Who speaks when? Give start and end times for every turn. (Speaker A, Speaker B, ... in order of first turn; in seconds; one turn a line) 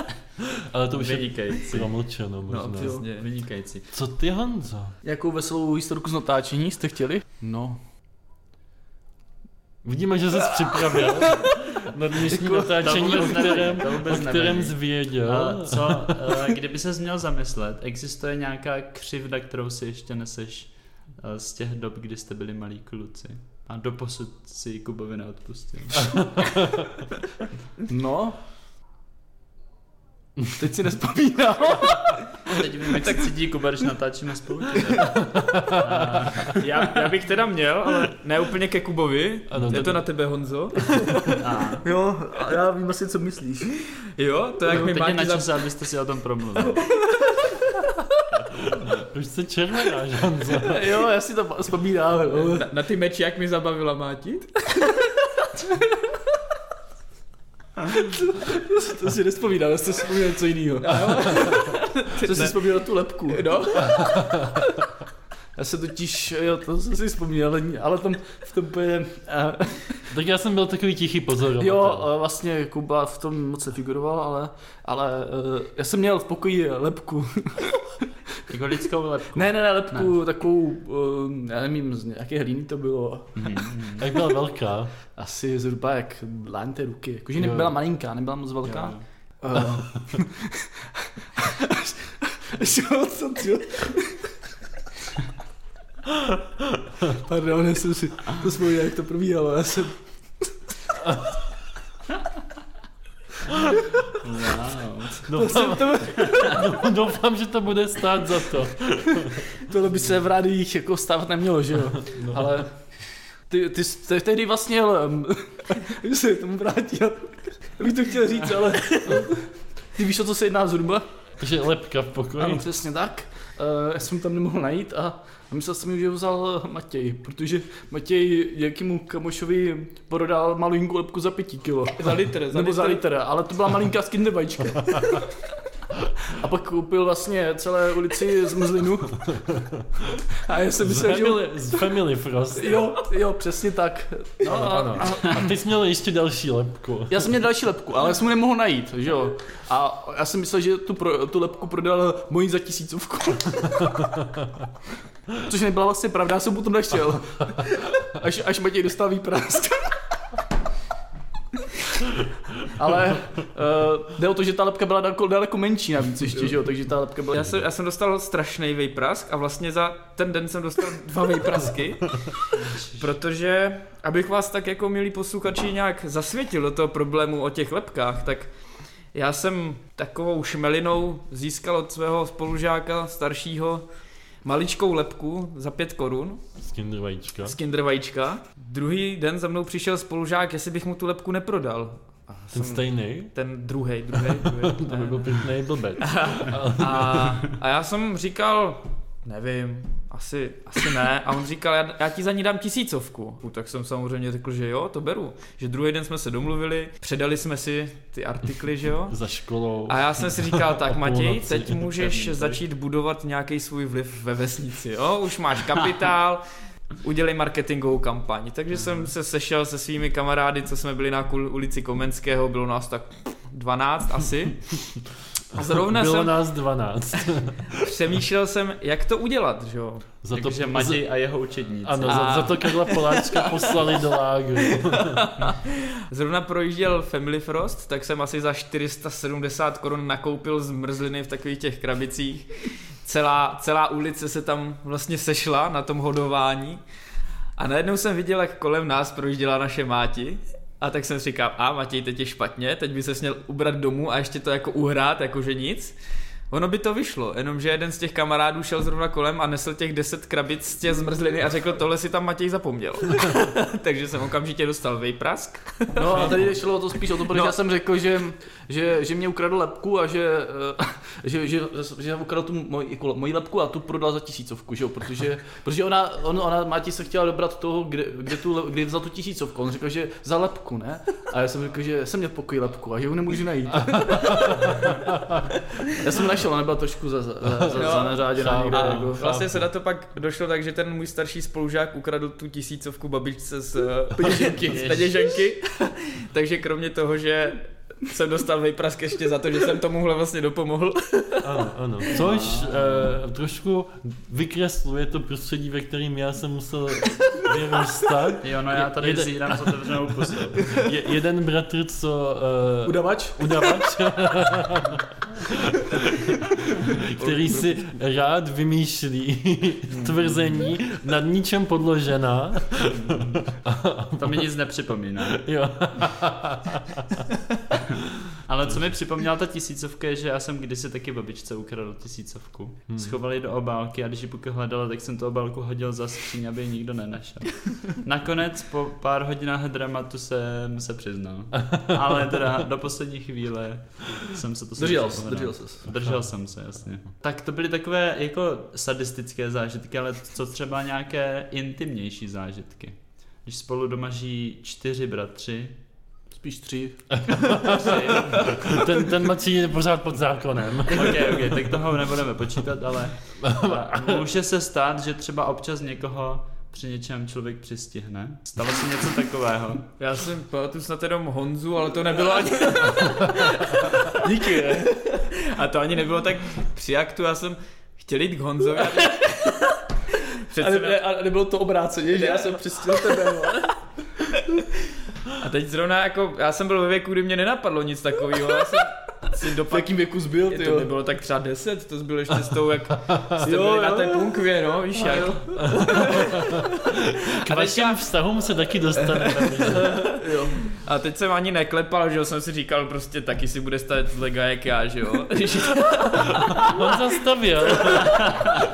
Speaker A: 0.6-3.0
Speaker B: 0.9-1.9
Speaker C: 2.5-3.0
Speaker D: 2.6-3.3
Speaker B: 3.0-3.8
Speaker A: 3.9-5.0
Speaker C: 5.0-7.8
Speaker A: 9.8-16.3
Speaker B: 12.8-26.4
Speaker C: 27.9-28.4
Speaker C: 30.5-32.2
Speaker B: 32.5-36.6
Speaker A: 35.3-36.4
Speaker D: 36.5-41.1
Speaker A: 39.5-40.0
Speaker B: 41.4-41.8
Speaker C: 41.8-43.7
Speaker D: 44.2-45.6
Speaker B: 44.7-46.9
Speaker A: 48.6-50.8
Speaker C: 50.5-52.6
Speaker D: 52.4-54.9
Speaker C: 57.9-64.5
Speaker D: 60.8-62.5
Speaker D: 63.3-63.9
Speaker C: 65.5-70.0
Speaker A: 70.1-72.1
Speaker C: 71.6-78.0
Speaker B: 78.5-80.2
Speaker C: 79.3-83.7
Speaker B: 83.3-84.1
Speaker A: 84.0-84.9
Speaker C: 85.2-94.3
Speaker A: 87.4-87.7
Speaker B: 88.6-89.0
Speaker C: 97.1-100.4
Speaker B: 104.2-105.4
Speaker C: 105.2-106.8
Speaker A: 105.3-109.5
Speaker C: 109.6-112.8
Speaker A: 112.1-112.6
Speaker C: 113.5-121.0
Speaker A: 121.4-122.6
Speaker C: 122.4-135.3
Speaker D: 131.9-133.0
Speaker C: 136.3-139.3
Speaker C: 140.4-141.8
Speaker A: 140.8-142.8
Speaker C: 142.5-145.3
Speaker A: 144.4-147.3
Speaker B: 145.1-145.4
Speaker C: 147.1-154.2
Speaker C: 155.3-160.0
Speaker C: 162.6-167.5
Speaker D: 167.3-178.5
Speaker B: 172.5-173.1
Speaker D: 179.1-183.8
Speaker D: 184.4-186.4
Speaker A: 186.6-187.6
Speaker D: 187.4-195.5
Speaker A: 192.5-193.3
Speaker A: 194.6-197.4
Speaker D: 196.0-209.2
Speaker A: 209.1-212.5
Speaker D: 209.9-216.4
Speaker D: 217.0-224.6
Speaker D: 225.5-226.3
Speaker A: 225.6-227.7
Speaker D: 227.8-230.1
Speaker A: 230.2-231.0
Speaker B: 230.3-232.5
Speaker A: 231.8-235.2
Speaker D: 232.1-233.7
Speaker D: 234.8-242.5
Speaker D: 243.0-246.8
Speaker D: 247.6-255.9
Speaker D: 256.5-266.5
Speaker C: 265.9-285.0
Speaker A: 266.2-266.5
Speaker D: 267.3-267.6
Speaker A: 283.8-285.4
Speaker C: 285.9-289.3
Speaker D: 287.7-301.6
Speaker A: 287.8-289.7
Speaker C: 294.1-295.1
Speaker B: 294.7-295.0
Speaker A: 301.4-316.4
Speaker B: 302.2-302.5
Speaker B: 308.4-310.7
Speaker C: 312.8-313.6
Speaker A: 316.9-324.5
Speaker D: 317.1-317.8
Speaker B: 319.9-320.7
Speaker B: 322.8-325.4
Speaker A: 325.2-327.2
Speaker B: 328.0-355.7
Speaker A: 328.6-328.9
Speaker C: 344.8-345.9
Speaker C: 356.3-357.9
Speaker A: 357.3-361.4
Speaker B: 357.6-358.6
Speaker B: 360.9-369.9
Speaker A: 363.4-364.2
Speaker D: 370.0-379.5
Speaker C: 374.2-375.0
Speaker D: 380.5-381.0
Speaker C: 380.6-383.7
Speaker D: 382.2-383.5
Speaker D: 385.3-389.9
Speaker C: 389.7-390.9
Speaker D: 390.4-396.7
Speaker C: 393.4-394.4
Speaker C: 394.9-396.1
Speaker A: 395.8-400.0
Speaker D: 397.3-398.0
Speaker D: 399.0-406.8
Speaker C: 400.0-400.7
Speaker A: 406.6-408.5
Speaker D: 407.8-408.1